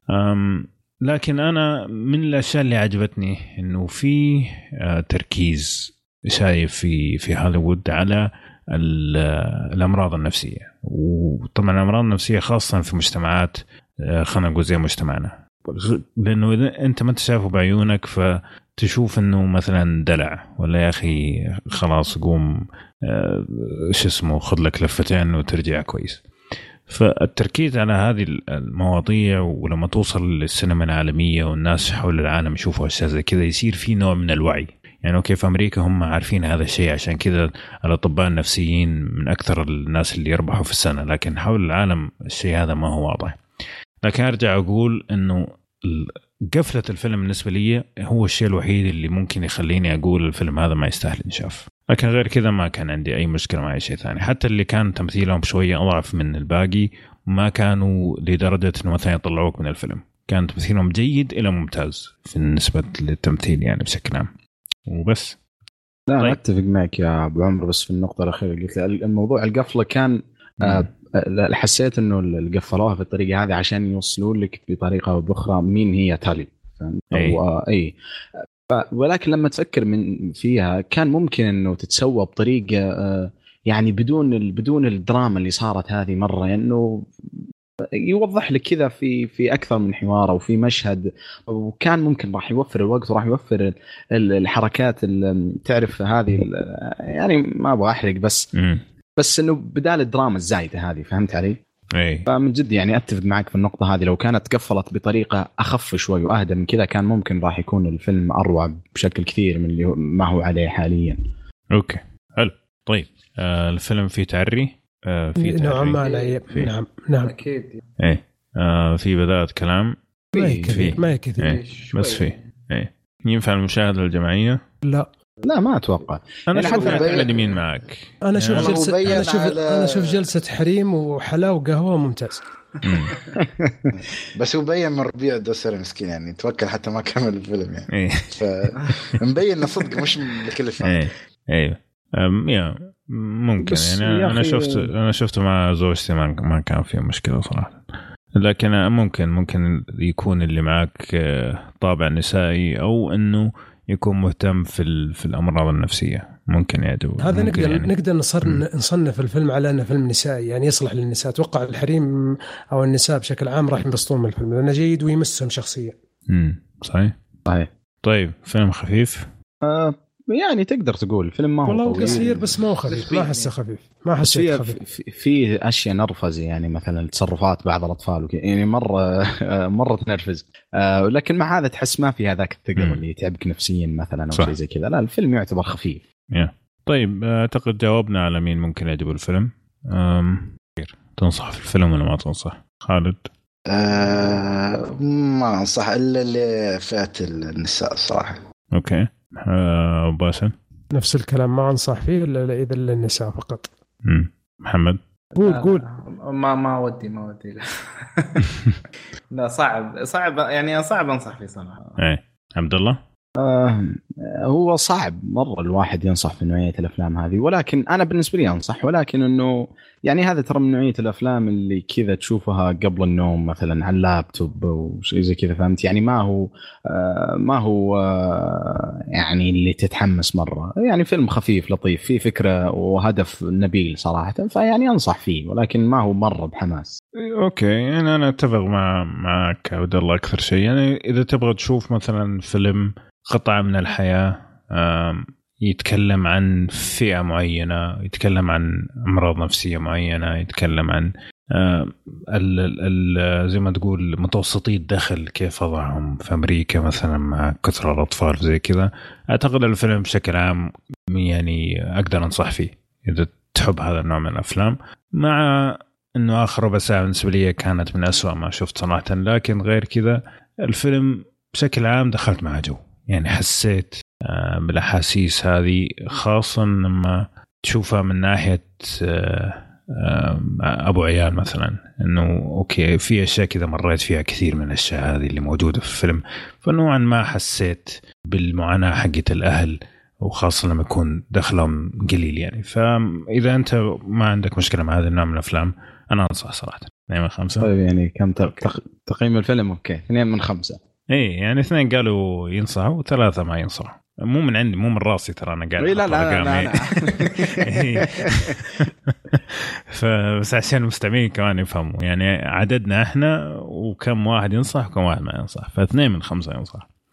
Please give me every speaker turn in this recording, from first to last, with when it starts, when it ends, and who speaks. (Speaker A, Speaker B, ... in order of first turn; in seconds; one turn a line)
Speaker A: 0.1-26.2
Speaker A: 26.9-43.4
Speaker A: 44.0-64.3
Speaker A: 64.9-65.4
Speaker B: 66.1-77.9
Speaker A: 70.6-70.9
Speaker A: 77.1-77.4
Speaker B: 78.7-87.1
Speaker B: 88.0-98.5
Speaker A: 98.5-98.8
Speaker B: 99.2-101.6
Speaker A: 101.9-102.3
Speaker B: 102.3-111.2
Speaker A: 111.7-116.7
Speaker C: 115.4-117.3
Speaker D: 116.0-116.4
Speaker D: 117.3-117.8
Speaker A: 118.0-120.0
Speaker B: 120.3-120.9
Speaker C: 120.3-121.6
Speaker A: 120.6-124.6
Speaker D: 121.4-122.4
Speaker B: 125.4-127.3
Speaker A: 126.5-129.2
Speaker E: 126.7-127.3
Speaker C: 128.2-132.4
Speaker E: 128.5-130.3
Speaker A: 132.8-133.1
Speaker D: 132.9-133.2
Speaker B: 133.4-133.9
Speaker E: 134.3-141.1
Speaker A: 137.9-138.4
Speaker A: 140.8-147.8
Speaker B: 143.6-144.9
Speaker A: 148.4-157.9
Speaker C: 157.2-162.1
Speaker C: 162.7-165.9
Speaker A: 166.3-167.1
Speaker A: 168.0-169.3
Speaker B: 169.6-172.5
Speaker C: 171.7-174.8
Speaker D: 172.0-172.3
Speaker D: 172.9-173.5
Speaker B: 174.2-186.0
Speaker A: 186.3-193.3
Speaker E: 193.7-198.4
Speaker A: 198.7-200.5
Speaker C: 200.9-203.7
Speaker A: 204.1-205.0
Speaker C: 205.4-205.8
Speaker D: 205.4-208.5
Speaker D: 209.3-211.9
Speaker A: 212.0-213.0
Speaker B: 213.4-237.0
Speaker A: 237.2-297.7
Speaker B: 297.6-300.8
Speaker A: 301.1-306.8
Speaker B: 305.8-308.9
Speaker A: 307.6-316.9